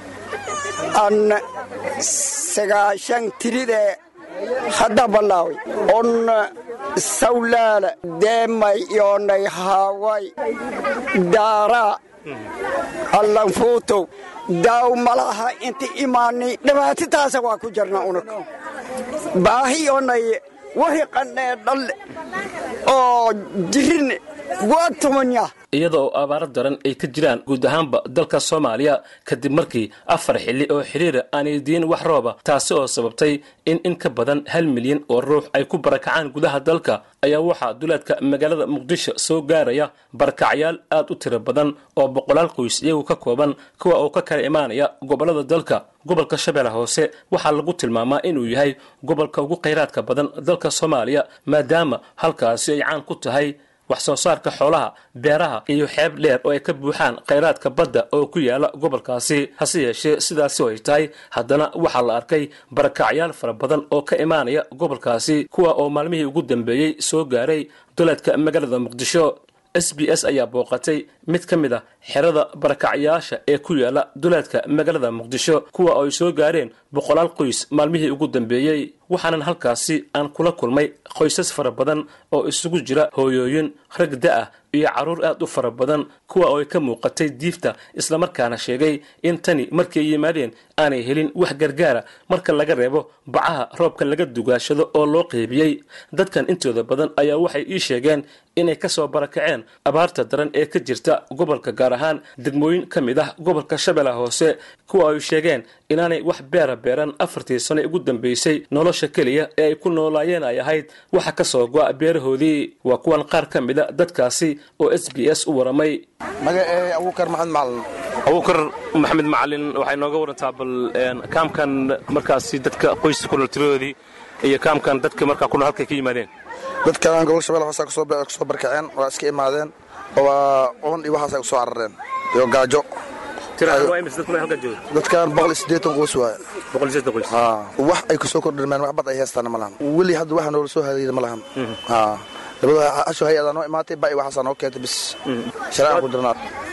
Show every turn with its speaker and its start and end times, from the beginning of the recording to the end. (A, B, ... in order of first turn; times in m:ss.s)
0:00.9-0:01.4 A
0:02.0-0:04.0 A
0:04.7-0:06.4 A
0:07.0-0:10.3 A
0:11.2-0:12.0 A
0:13.1-0:18.4 A
0:19.4-0:21.9 A
0:22.9-0:25.5 A
0:25.7-1:56.0 B
1:56.4-1:57.8 C
1:58.2-2:06.3 B
2:06.8-2:12.9 C
2:13.6-2:14.8 B
2:13.6-2:13.9 C
2:14.9-2:16.4 C
2:16.7-2:17.3 B
2:17.3-2:25.2 C
2:25.3-2:26.0 B
2:25.7-2:26.3 C